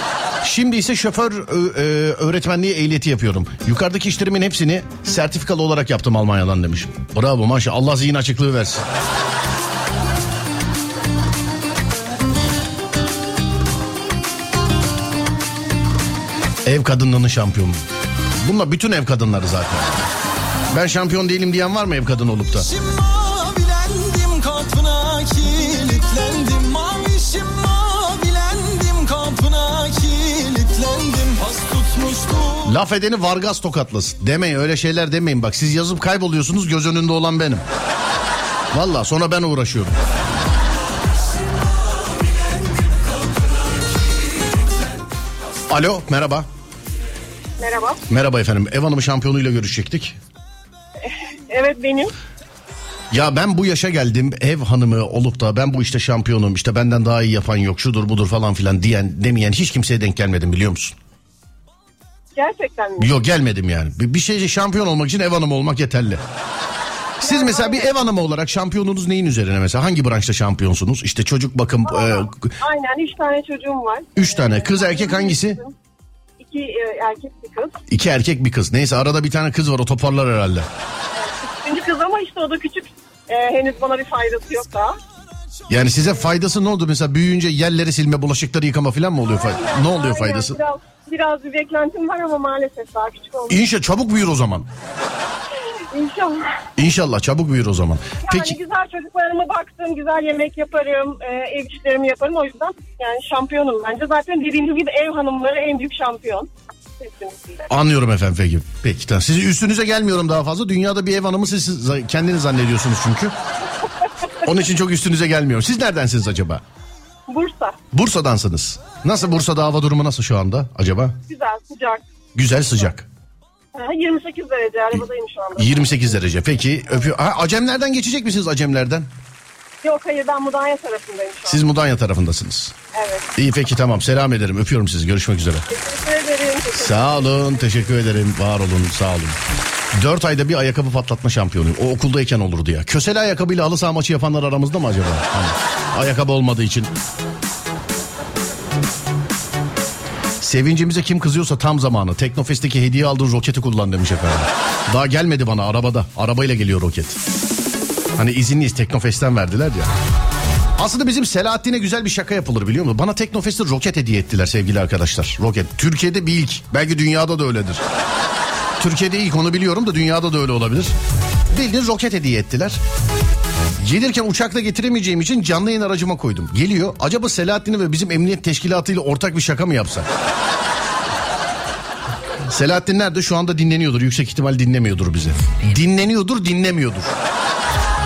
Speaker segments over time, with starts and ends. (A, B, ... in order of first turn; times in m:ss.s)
0:00.4-0:08.8 A
0:16.6-0:17.8 A
0:18.4-0:20.0 A
0:20.7-0:22.7 A
0:22.6-0:32.4 B
0:32.6-0:37.6 A
0:38.7-0:40.0 A
0:45.7-0:46.5 A
0:47.6-0:48.0 C
0:48.1-0:50.2 A
0:51.0-0:52.1 C
0:53.1-1:00.9 A
1:02.4-1:03.1 C
1:03.0-1:06.2 A
1:07.2-1:12.5 A
1:07.2-1:07.9 C
1:11.8-1:15.7 C
1:14.2-1:15.6 A
1:16.4-1:17.8 C
1:17.9-1:20.7 A
1:21.2-1:25.0 C
1:25.7-1:30.6 A
1:29.2-1:33.6 C
1:33.5-1:34.7 A
1:35.9-1:36.6 C
1:36.8-1:38.6 A
1:38.2-1:46.5 C
1:47.0-1:47.6 C
1:47.7-1:53.3 A
1:54.4-1:56.6 A
1:57.3-1:57.8 C
1:57.9-2:01.2 A
2:01.3-2:02.0 C
2:02.3-2:03.1 A
2:03.7-2:06.0 C
2:05.6-2:09.1 A
2:09.8-2:11.6 C
2:11.5-2:12.7 A
2:12.9-2:13.3 C
2:13.3-2:15.6 A
2:15.7-2:17.9 C
2:16.8-2:19.4 A
2:19.9-2:26.9 A
2:30.4-2:37.2 A
2:38.2-2:39.9 A
2:40.8-2:47.8 A
2:48.8-2:50.9 A
2:51.5-2:52.8 A
2:53.8-3:00.1 A
3:02.5-3:07.1 A